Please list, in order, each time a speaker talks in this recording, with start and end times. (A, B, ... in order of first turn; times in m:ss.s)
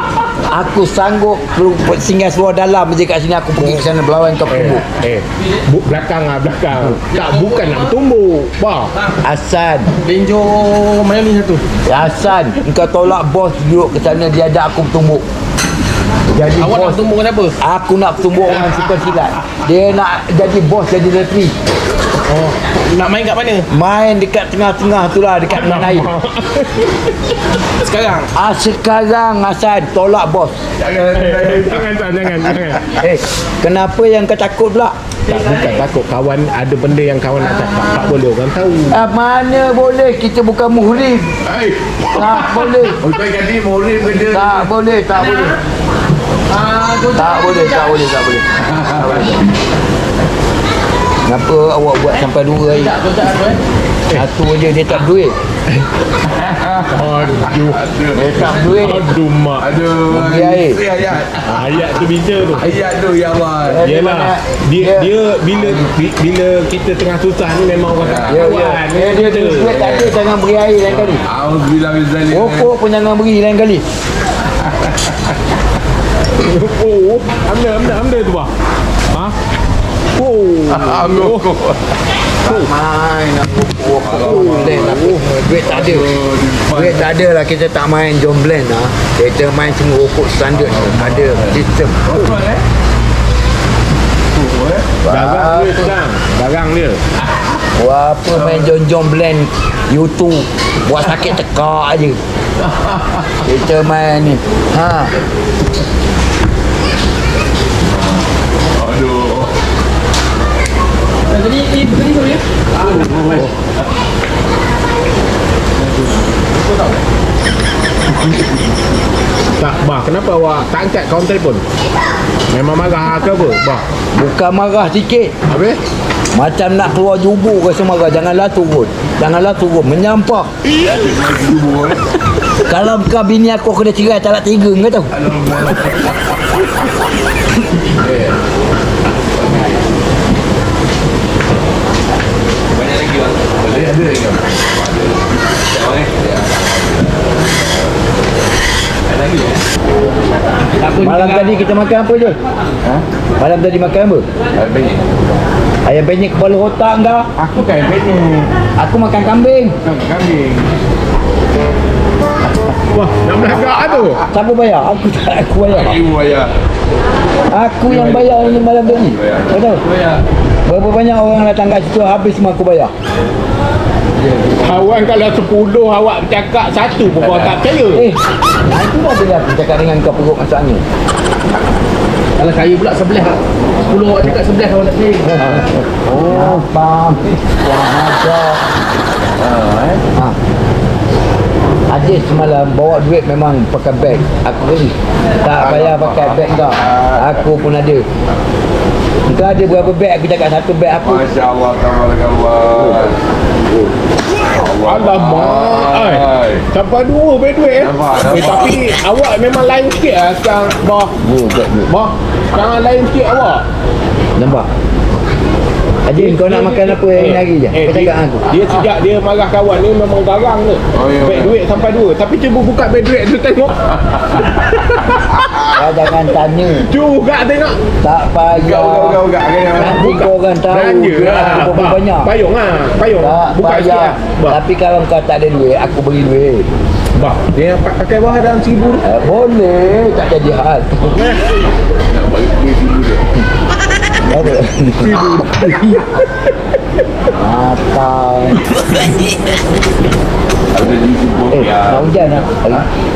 0:00.5-0:04.8 A
0:04.5-0:08.9 B
0:07.1-0:07.8 C
0:09.2-0:09.9 A
0:10.0-0:11.6 C
0:11.9-0:15.2 A
0:16.3-0:17.0 A
0:16.6-0:17.6 C
0:17.6-0:21.6 A
0:22.3-0:23.7 C
0:23.7-0:26.1 A
0:25.5-0:27.1 B
0:27.8-0:28.3 C
0:28.3-0:30.6 A
0:30.8-0:31.9 D
0:31.1-0:32.9 B
0:32.9-0:35.0 A
0:35.3-0:39.0 B
0:38.9-0:41.3 A
0:41.4-0:42.4 D
0:42.1-0:43.0 A
0:43.0-0:44.7 D
0:44.3-0:45.6 A
0:46.5-0:47.9 C
0:47.2-0:49.4 A
0:48.6-0:49.4 D
0:51.3-0:52.9 A
0:52.7-0:53.6 C
0:54.1-0:55.4 A
0:56.4-0:58.9 D
0:56.9-0:57.8 B
0:58.1-0:59.1 A
0:58.7-0:59.7 B
0:59.6-1:01.7 D
1:00.1-1:00.8 A
1:01.5-1:02.7 B
1:02.5-1:03.8 D
1:03.6-1:05.1 A
1:03.8-1:09.8 B
1:08.0-1:08.5 D
1:08.3-1:11.2 A
1:09.7-1:10.2 D
1:11.0-1:12.7 D
1:12.3-1:13.8 A
1:14.6-1:15.3 D
1:16.4-1:18.5 B
1:20.2-1:21.4 B
1:20.7-1:22.0 D
1:22.4-1:26.1 A
1:22.4-1:22.7 B
1:24.0-1:25.0 D
1:24.2-1:25.2 B
1:25.7-1:27.1 D
1:26.7-1:32.0 A
1:30.5-1:32.6 D
1:34.3-1:34.9 D
1:35.0-1:35.9 A
1:35.1-1:37.0 B
1:37.8-1:42.2 A
1:38.4-1:38.7 D
1:42.6-1:43.4 D
1:43.4-1:45.1 A
1:47.8-1:49.5 D
1:51.3-1:53.4 C
1:52.8-1:53.4 D
1:59.6-2:01.6 B
2:02.5-2:03.8 B
2:04.1-2:05.4 A
2:05.5-2:05.8 D
2:06.3-2:10.5 A
2:10.8-2:12.0 D
2:12.7-2:15.1 A
2:15.1-2:16.4 D
2:17.9-2:18.4 D
2:19.3-2:19.8 D
2:22.8-2:23.5 C
2:23.6-2:25.4 D
2:25.7-2:26.1 C
2:25.9-2:27.4 D
2:30.8-2:31.6 C
2:31.0-2:32.4 A
2:33.4-2:34.2 A
2:34.6-2:35.1 D
2:35.8-2:37.3 A
2:37.4-2:38.5 D
2:37.5-2:38.5 C
2:38.8-2:39.8 A
2:39.8-2:40.6 D
2:42.9-2:44.2 B
2:44.3-2:46.0 A
2:45.7-2:46.5 D
2:47.5-2:49.8 A
2:47.9-2:48.4 D
2:49.1-2:50.1 D
2:50.7-2:52.9 A
2:54.6-2:58.1 B
2:57.9-3:00.8 A
3:02.4-3:06.6 C
3:05.4-3:05.6 A
3:06.1-3:06.4 D
3:06.2-3:08.6 A
3:09.4-3:10.0 C
3:11.9-3:18.1 A
3:15.5-3:17.5 D
3:19.3-3:21.2 A
3:21.0-3:23.2 D
3:24.4-3:26.7 D
3:24.8-3:31.1 B
3:27.8-3:28.8 D
3:31.2-3:31.9 A
3:31.9-3:33.6 B
3:34.4-3:34.7 A
3:36.1-3:38.5 A
3:36.2-3:43.8 B
3:40.9-3:41.6 D
3:44.1-3:44.5 D
3:44.6-3:45.1 B
3:45.6-3:46.9 A
3:46.8-3:47.8 B
3:48.0-3:49.2 A
3:48.5-3:50.3 D
3:49.7-3:52.3 A
3:50.1-3:54.6 B
3:53.2-3:56.7 A
3:57.2-3:59.0 B
3:59.0-4:01.3 A
4:01.0-4:01.4 B
4:02.0-4:03.3 D
4:04.3-4:05.8 A
4:05.1-4:06.0 B
4:07.3-4:08.6 A
4:10.7-4:12.7 D
4:11.5-4:12.9 A